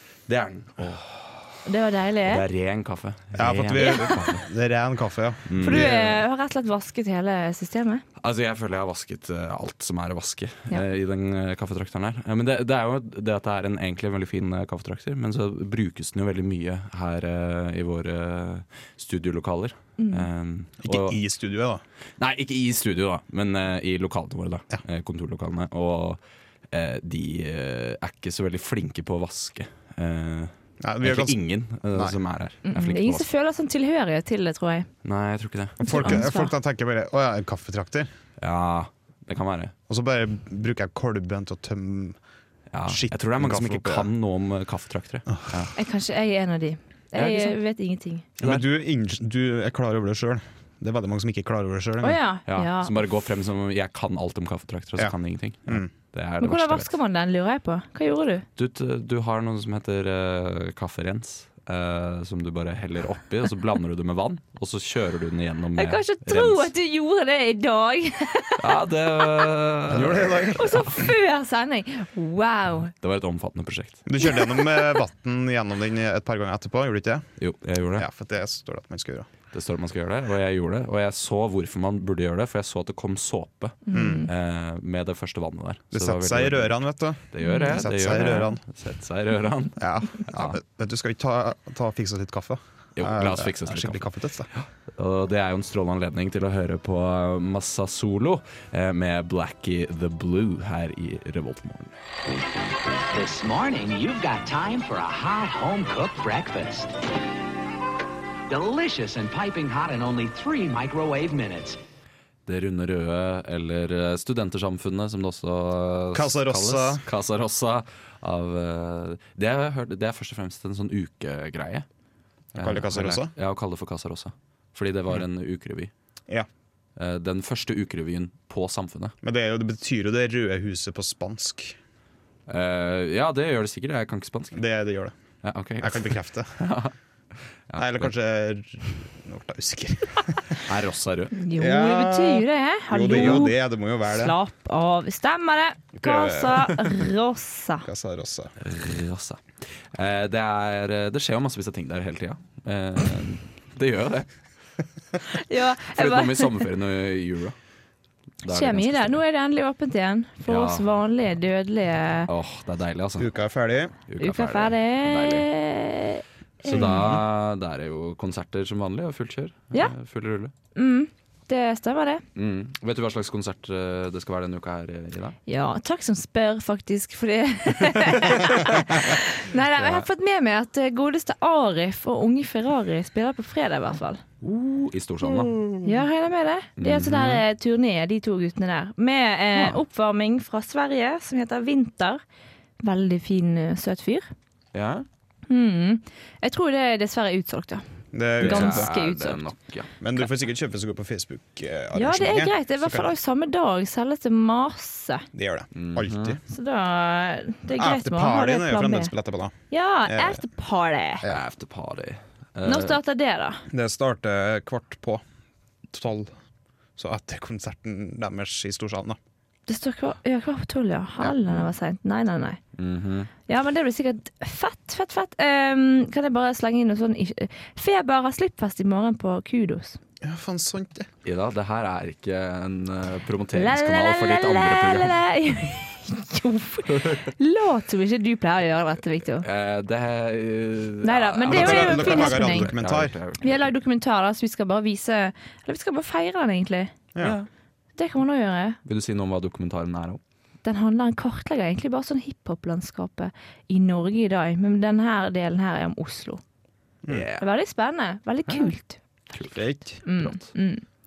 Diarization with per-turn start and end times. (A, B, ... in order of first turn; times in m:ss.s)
0:00.3-0:01.6 A
0:01.6-0:02.4 B
0:02.2-0:04.4 A
0:03.4-0:06.2 C
0:03.8-0:04.1 B
0:05.5-0:06.0 A
0:05.6-0:08.0 B
0:08.2-0:21.2 A
0:20.0-0:20.3 B
0:20.8-0:21.8 C
0:22.2-0:26.2 A
0:26.7-0:33.2 A
0:30.8-0:32.2 C
0:32.6-0:34.9 B
0:35.0-0:36.2 A
0:35.8-0:38.1 C
0:35.8-0:36.5 B
0:38.4-0:39.7 A
0:39.9-0:42.2 C
0:42.7-0:45.7 A
0:42.9-0:44.1 C
0:45.4-0:45.6 C
0:45.8-0:48.2 B
0:47.1-0:47.5 A
0:48.4-0:48.6 A
0:48.4-0:52.2 C
0:52.0-0:52.9 B
0:52.5-0:56.9 A
0:56.4-0:58.4 B
0:58.6-1:06.7 A
1:05.8-1:09.4 B
1:08.6-1:10.8 A
1:09.9-1:11.0 C
1:10.5-1:12.9 B
1:13.0-1:14.0 A
1:14.0-1:17.3 C
1:14.2-1:14.9 B
1:17.4-1:18.1 A
1:18.0-1:19.3 C
1:19.5-1:30.6 A
1:23.9-1:24.3 B
1:23.9-1:24.3 C
1:25.9-1:28.6 C
1:27.4-1:27.8 B
1:29.8-1:34.5 C
1:33.0-1:41.9 A
1:43.1-1:47.0 D
1:48.5-1:51.8 D
1:52.4-2:01.9 A
1:56.1-1:57.0 C
2:02.5-2:03.3 C
2:02.5-2:05.9 A
2:07.0-2:09.1 A
2:09.2-2:11.8 C
2:12.5-2:14.6 A
2:14.5-2:15.1 C
2:15.4-2:16.9 A
2:15.8-2:16.6 C
2:17.7-2:18.1 A
2:17.8-2:20.6 C
2:20.6-2:21.4 A
2:21.4-2:27.9 B
2:21.5-2:24.4 C
2:23.1-2:23.4 A
2:26.0-2:26.8 C
2:27.8-2:28.5 C
2:28.6-2:34.3 A
2:35.2-2:36.6 B
2:35.8-2:37.6 A
2:38.4-2:39.2 A
2:38.4-2:42.3 B
2:40.5-2:40.9 A
2:42.3-2:43.3 A
2:43.2-2:43.9 C
2:44.1-2:45.5 A
2:44.2-2:47.1 B
2:46.6-2:50.5 A
2:46.7-2:47.1 C
2:50.7-2:52.2 B
2:52.4-2:55.4 A
2:55.5-3:04.2 B
2:58.3-2:58.8 A
2:59.7-3:00.0 A
3:04.4-3:05.9 A
3:05.8-3:12.2 B
3:06.8-3:07.4 A
3:12.8-3:14.3 B
3:14.7-3:15.0 A
3:15.5-3:17.8 B
3:18.1-3:18.9 C
3:18.4-3:19.4 B
3:18.4-3:19.9 A
3:20.0-3:23.1 C
3:21.9-3:25.3 B
3:25.3-3:26.4 C
3:25.7-3:26.4 A
3:26.5-3:29.1 B
3:27.7-3:29.5 C
3:29.7-3:31.2 B
3:30.0-3:30.4 C
3:31.3-3:33.0 A
3:32.6-3:33.6 B
3:33.7-3:35.2 C
3:35.9-3:36.3 C
3:37.0-3:39.2 C
3:39.7-3:42.6 B
3:42.8-3:43.3 A
3:43.5-3:50.0 B
3:50.2-3:51.1 C
3:51.2-3:55.2 A
3:53.5-3:59.4 B
3:56.9-3:57.2 A
3:59.4-4:03.7 A
4:01.0-4:02.7 B
4:01.5-4:03.1 C
4:03.4-4:06.9 B
4:07.1-4:07.4 C
4:07.2-4:07.5 A
4:08.0-4:08.8 B
4:08.8-4:10.2 A
4:10.6-4:16.4 B
4:17.1-4:17.4 A
4:17.4-4:19.0 B
4:19.3-4:20.5 A
4:19.4-4:20.0 C
4:20.0-4:20.8 B